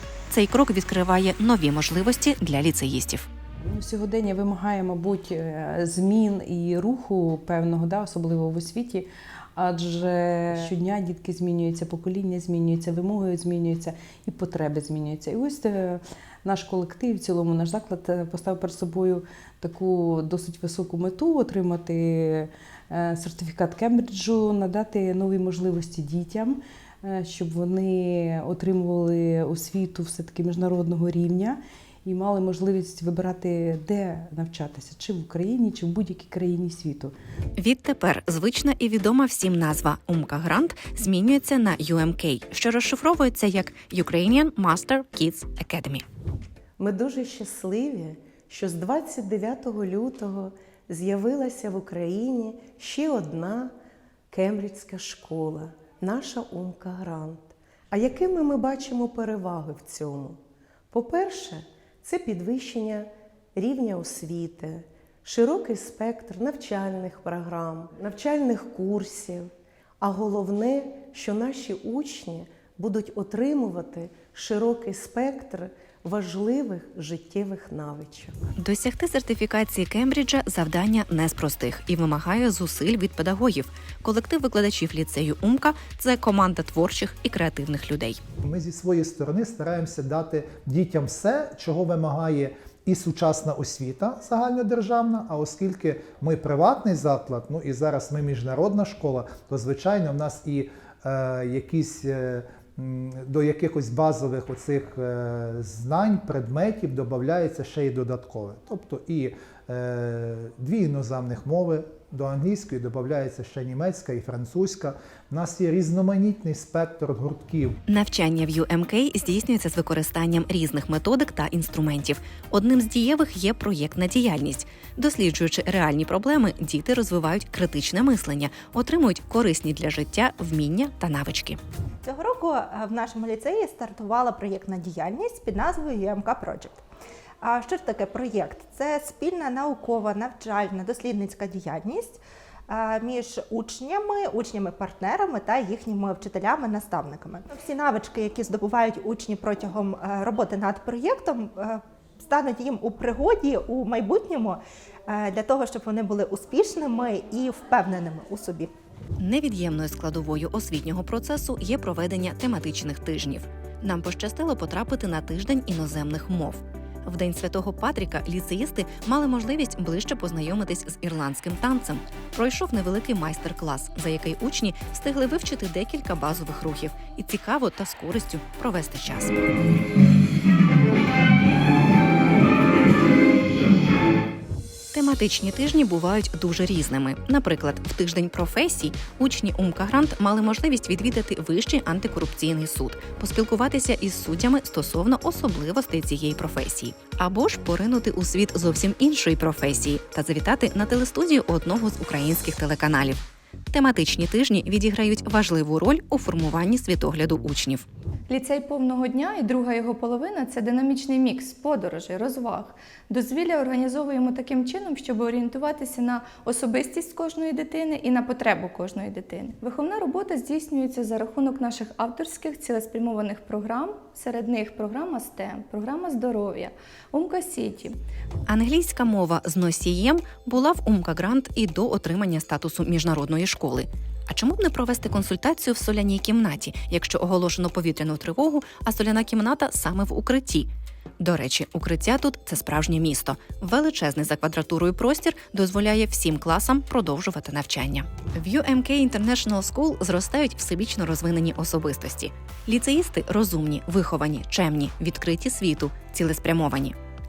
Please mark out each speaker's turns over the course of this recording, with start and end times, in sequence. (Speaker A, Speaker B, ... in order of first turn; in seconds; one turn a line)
Speaker A: 0.3-3.3
Speaker B: 3.7-37.1
Speaker A: 37.6-46.0
Speaker C: 46.8-53.7
Speaker C: 54.3-60.4
Speaker C: 60.9-69.5
Speaker C: 70.0-78.3
Speaker A: 78.6-88.2
Speaker D: 88.5-117.8
Speaker A: 117.9-131.6
Speaker E: 132.1-136.8
Speaker E: 137.4-158.7
Speaker A: 159.2-179.6
Speaker A: 184.9-207.8
Speaker F: 208.3-227.9
Speaker A: 228.5-240.7
Speaker A: 241.2-256.9